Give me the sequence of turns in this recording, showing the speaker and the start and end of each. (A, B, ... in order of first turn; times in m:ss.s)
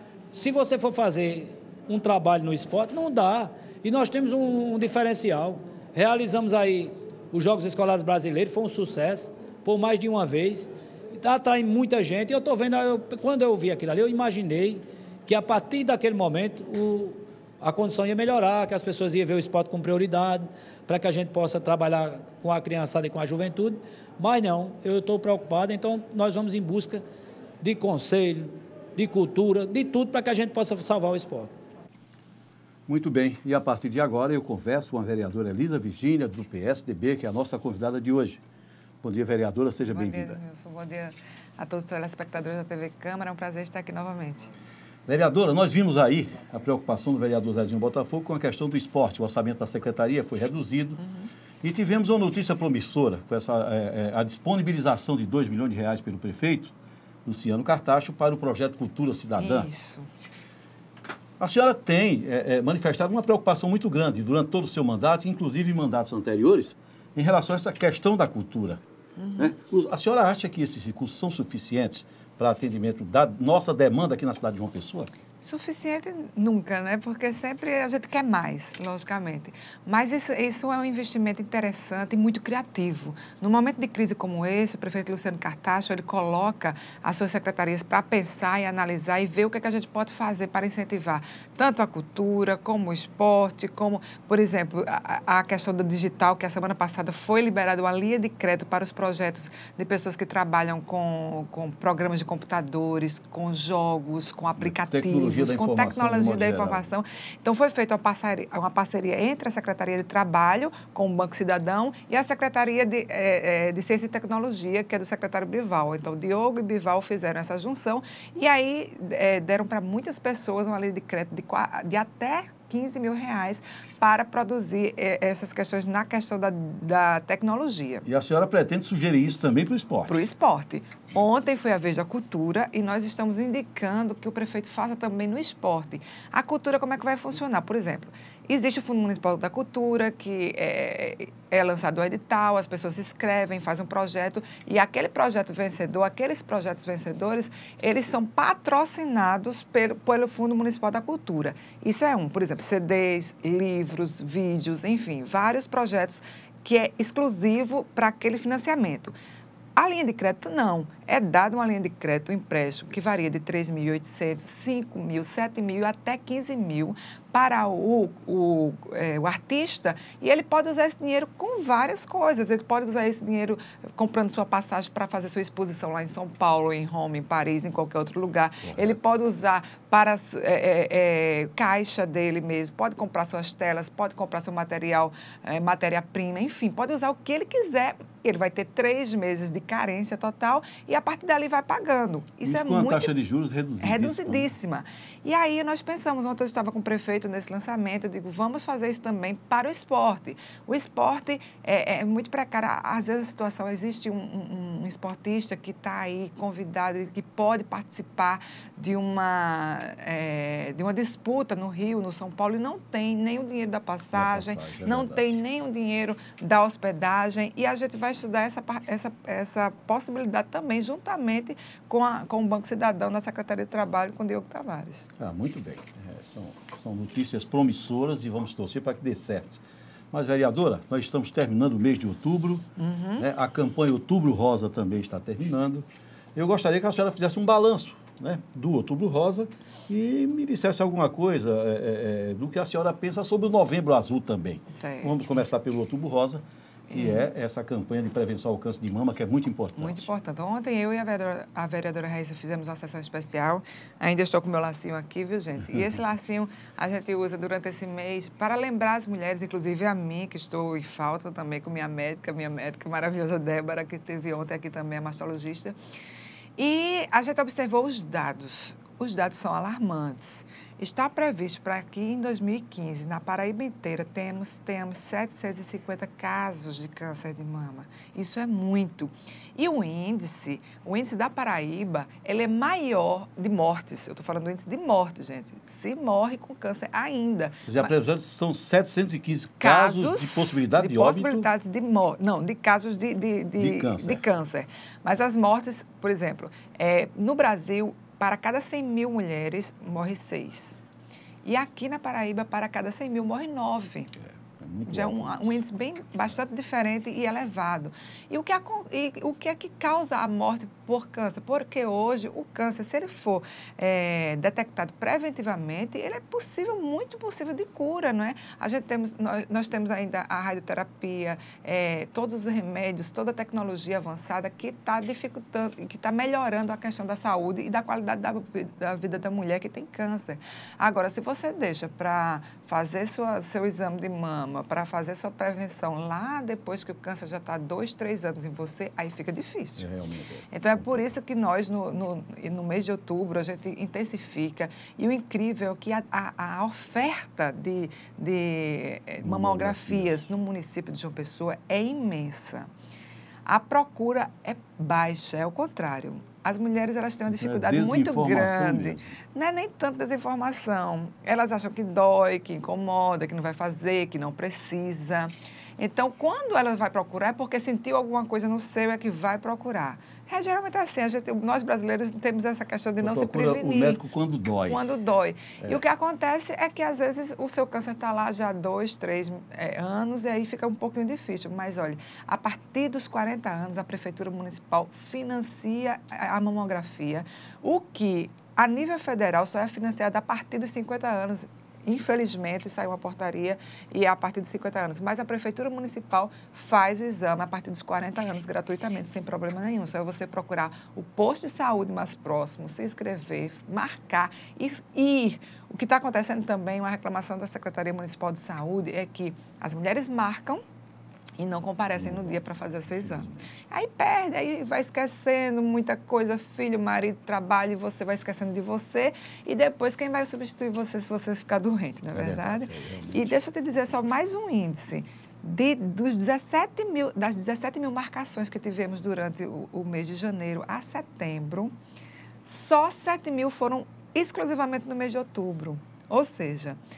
0:00.3-0:27.0 A
0:27.6-0:31.5 A
0:32.9-0:38.4 B
0:39.0-0:40.4 B
0:39.8-0:44.5 C
0:45.1-0:51.0 B
0:51.0-0:51.3 C
0:51.6-0:56.7 B
0:57.2-0:59.7 B
0:59.4-1:00.1 C
1:01.4-1:08.8 B
1:09.2-1:09.5 C
1:09.4-1:15.2 B
1:15.4-2:08.0 C
1:44.6-1:46.9 B
2:08.0-2:10.2 B
2:10.1-2:39.1 C
2:39.8-3:13.1 C
2:58.6-2:59.0 B
3:12.4-3:14.5 B
3:13.8-3:45.1 C
3:34.1-3:35.2 B
3:45.2-3:49.6 B
3:50.1-4:10.1 B
3:52.8-3:53.2 C
4:04.7-4:05.2 C
4:06.9-4:07.3 C
4:09.8-4:25.8 C
4:26.6-4:47.9 C
4:47.7-4:51.5 B
4:49.6-5:00.8 C
4:53.6-4:54.2 B
5:01.4-5:04.1 C
5:04.3-5:05.6 B
5:04.8-5:39.8 C
5:39.8-5:41.0 B
5:40.5-5:52.7 C
5:49.2-5:50.3 B
5:53.4-6:14.0 C
5:57.3-5:59.2 B
6:13.0-6:14.8 B
6:14.7-6:50.6 C
6:51.4-7:11.7 C
6:52.0-6:52.3 B
6:53.0-6:53.4 B
7:02.1-7:03.4 B
7:12.4-7:16.8 C